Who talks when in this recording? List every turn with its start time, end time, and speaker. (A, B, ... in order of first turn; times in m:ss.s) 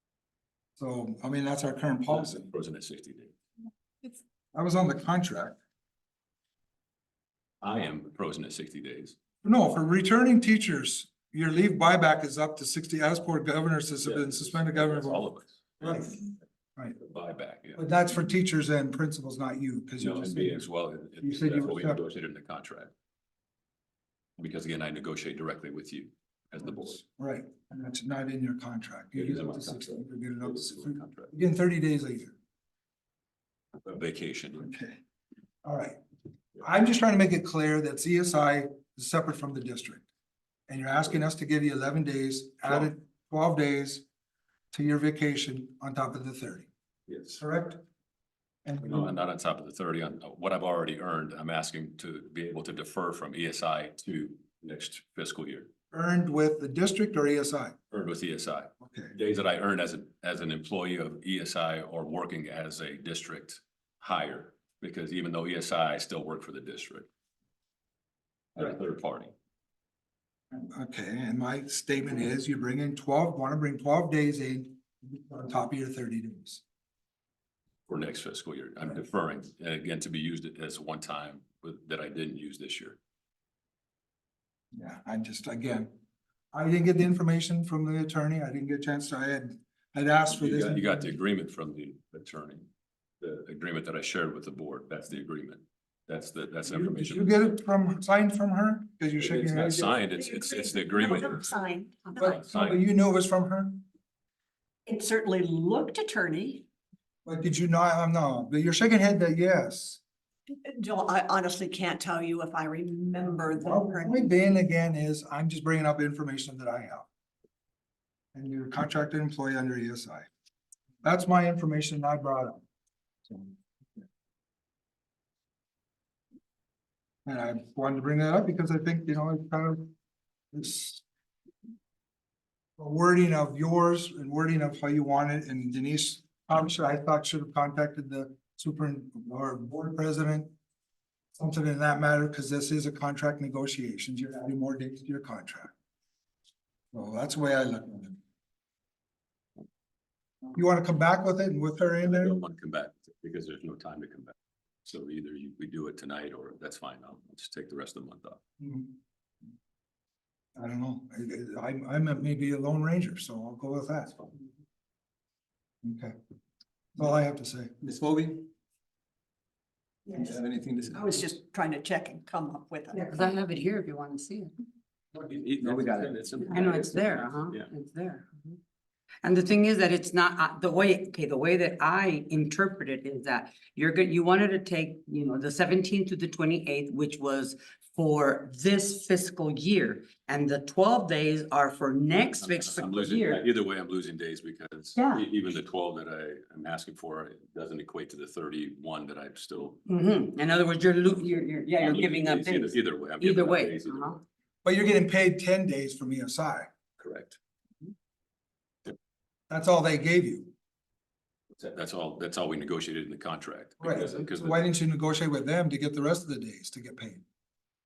0:00.8-0:02.5 A
0:02.1-0:03.3 B
0:04.5-0:05.6 A
0:07.6-0:09.2 B
0:09.4-0:15.3 A
0:14.0-0:16.3 B
0:15.8-0:16.2 A
0:17.0-0:17.8 B
0:17.8-0:20.6 A
0:20.0-0:22.9 B
0:21.2-0:22.0 A
0:24.4-0:27.0 B
0:27.0-0:32.4 A
0:29.2-0:31.3 B
0:33.8-0:34.7 B
0:34.6-0:35.0 A
0:35.6-0:36.0 A
0:36.6-0:40.1 A
0:40.7-0:44.0 A
0:44.7-0:46.7 A
0:47.1-0:47.4 B
0:47.4-0:47.8 A
0:48.7-0:49.1 A
0:48.8-0:55.7 B
0:55.9-0:57.8 A
0:57.9-1:07.1 B
0:58.8-0:59.2 A
1:08.6-1:09.3 B
1:10.5-1:16.6 A
1:17.9-1:23.0 B
1:24.7-1:25.9 A
1:26.5-1:31.1 A
1:30.3-1:32.6 B
1:33.2-1:37.4 B
1:36.7-1:39.9 A
1:39.2-1:41.6 B
1:40.2-1:42.4 C
1:42.2-1:43.8 A
1:42.3-1:42.8 B
1:44.9-1:46.6 C
1:47.2-1:50.0 A
1:50.5-1:54.3 C
1:53.6-1:57.1 A
1:58.3-2:00.3 A
2:01.0-2:02.6 A
2:07.3-2:09.9 A
2:10.5-2:11.0 A
2:12.8-2:20.5 A
2:21.4-2:25.7 A
2:26.9-2:28.2 A
2:30.6-2:32.4 A
2:32.0-2:34.3 B
2:34.8-2:38.4 B
2:38.6-2:39.0 A
2:40.6-2:44.2 A
2:45.8-2:46.2 A
2:47.0-2:47.7 A
2:47.8-2:48.5 D
2:50.1-2:51.1 D
2:50.9-2:53.3 C
2:52.9-2:54.5 E
2:55.2-2:57.7 B
2:55.6-2:56.2 D
2:56.5-2:58.6 E
2:59.2-3:13.4 E
3:12.2-3:19.8 B
3:19.9-3:24.2 E
3:21.2-3:24.2 B
3:24.6-3:26.7 A
3:27.0-3:27.4 B
3:29.5-3:30.5 A
3:31.6-3:34.6 B
3:33.8-3:37.2 A